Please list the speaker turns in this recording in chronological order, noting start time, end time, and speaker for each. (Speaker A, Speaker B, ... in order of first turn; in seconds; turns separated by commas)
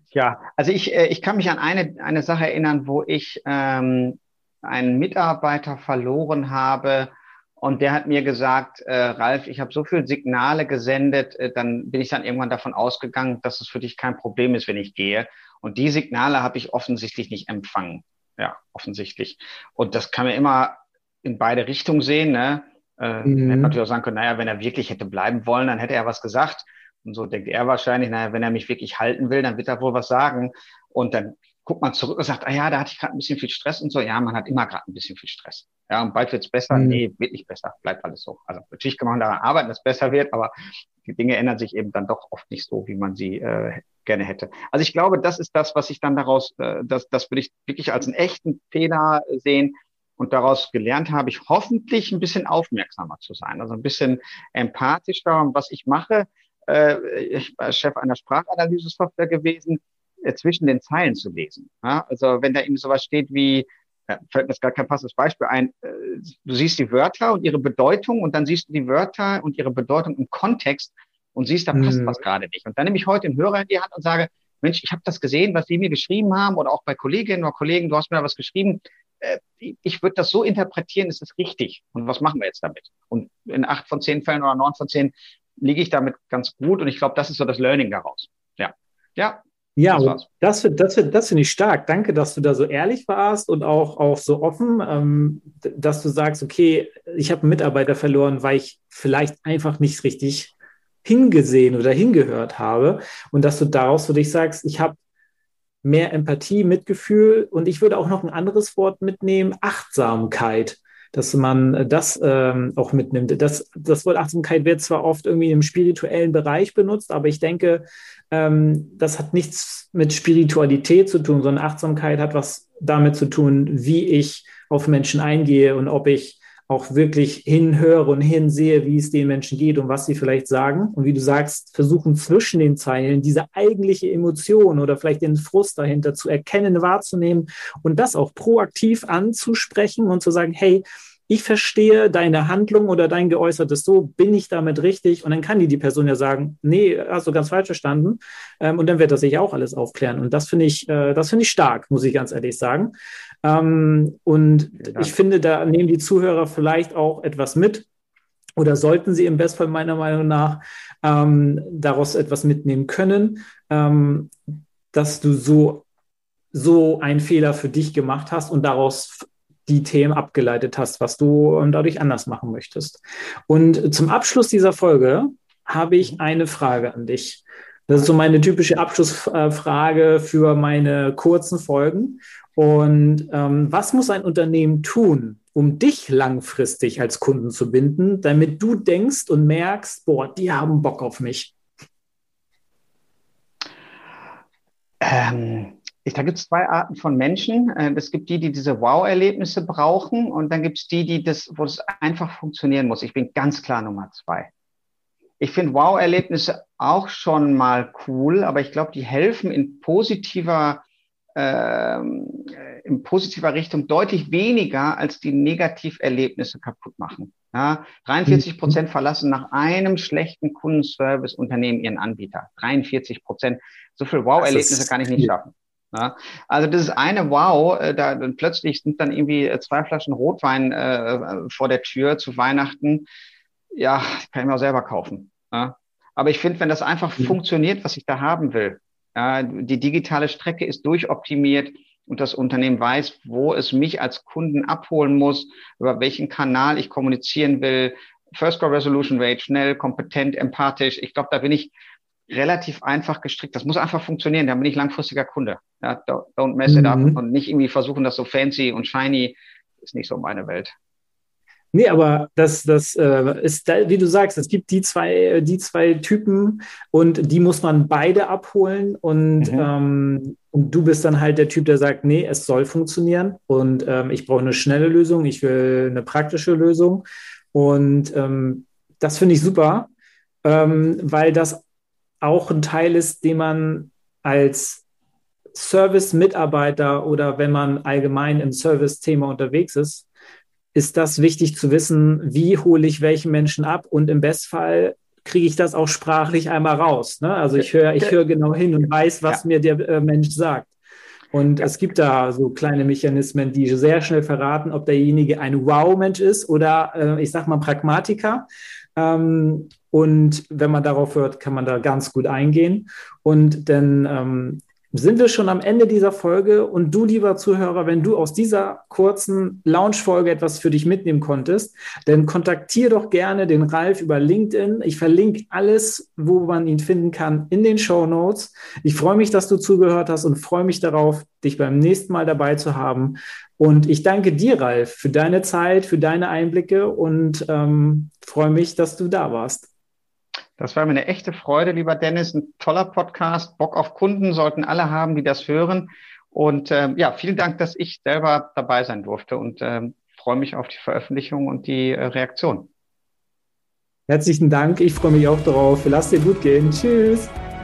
Speaker A: 0.1-90.2, Speaker B: 23.2-23.7, Speaker B: 36.7-37.0, Speaker B: 71.7-72.2, Speaker B: 89.8-105.0, Speaker B: 105.8-152.9, Speaker B: 153.4-157.9, Speaker A: 154.8-155.1, Speaker B: 158.6-164.3, Speaker B: 164.9-165.8, Speaker B: 166.5-191.5, Speaker A: 195.0-204.5, Speaker A: 205.4-210.8, Speaker A: 211.3-233.1, Speaker B: 218.3-218.7, Speaker B: 224.4-225.3, Speaker A: 233.8-251.7, Speaker A: 252.3-260.7, Speaker B: 256.7-257.2, Speaker B: 261.7-279.9, Speaker A: 269.4-269.7, Speaker B: 280.4-281.6, Speaker B: 282.2-284.8, Speaker B: 285.5-290.1, Speaker B: 290.7-300.7, Speaker A: 297.6-298.1, Speaker B: 301.3-308.4, Speaker B: 308.9-339.7, Speaker A: 340.6-352.7, Speaker B: 354.1-357.3